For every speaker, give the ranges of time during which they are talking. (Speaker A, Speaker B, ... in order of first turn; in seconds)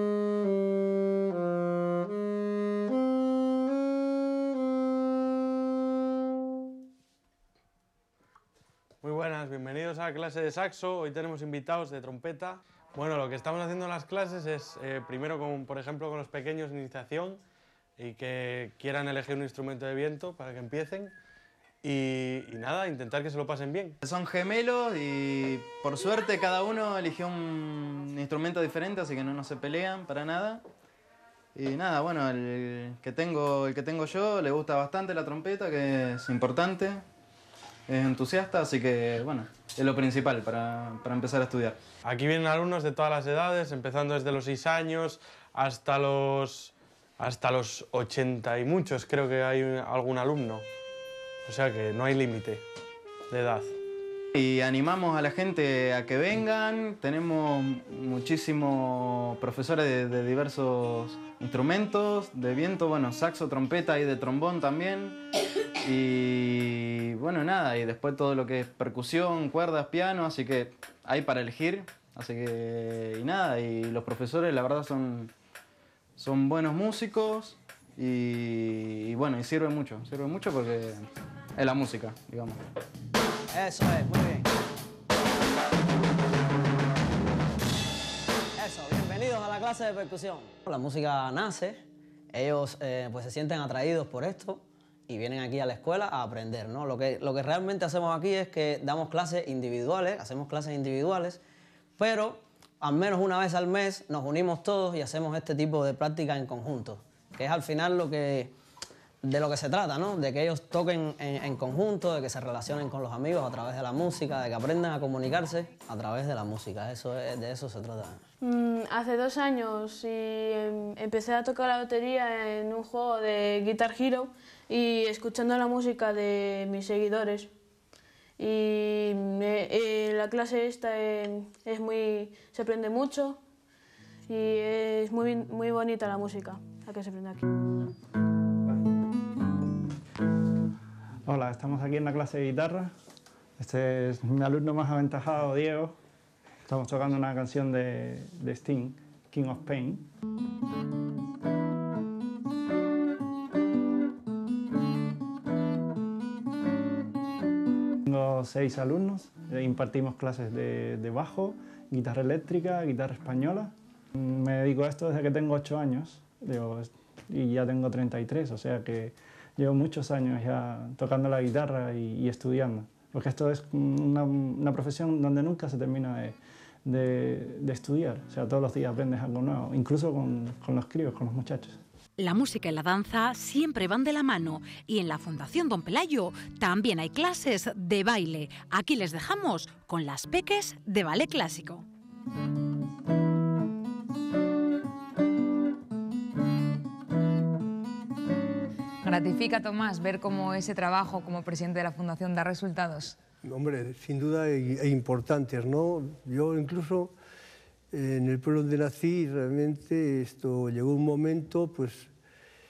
Speaker A: 9.0-17.4, 18.0-21.1, 21.8-24.0, 42.0-50.6, 51.4-52.6, 53.3-53.7
Speaker B: 24.0-30.6, 31.5-37.0, 37.9-41.8, 54.3-65.2, 65.8-75.3, 76.2-81.0, 81.5-82.6
Speaker C: 83.5-84.5, 88.6-101.4, 102.0-108.5, 109.2-118.2
Speaker D: 118.4-127.5, 128.4-133.4, 134.3-137.4
Speaker E: 141.2-142.9, 143.6-145.9, 146.7-150.1, 158.1-181.8
Speaker F: 182.2-191.8
Speaker G: 199.0-203.2
Speaker H: 203.4-207.1, 207.9-212.1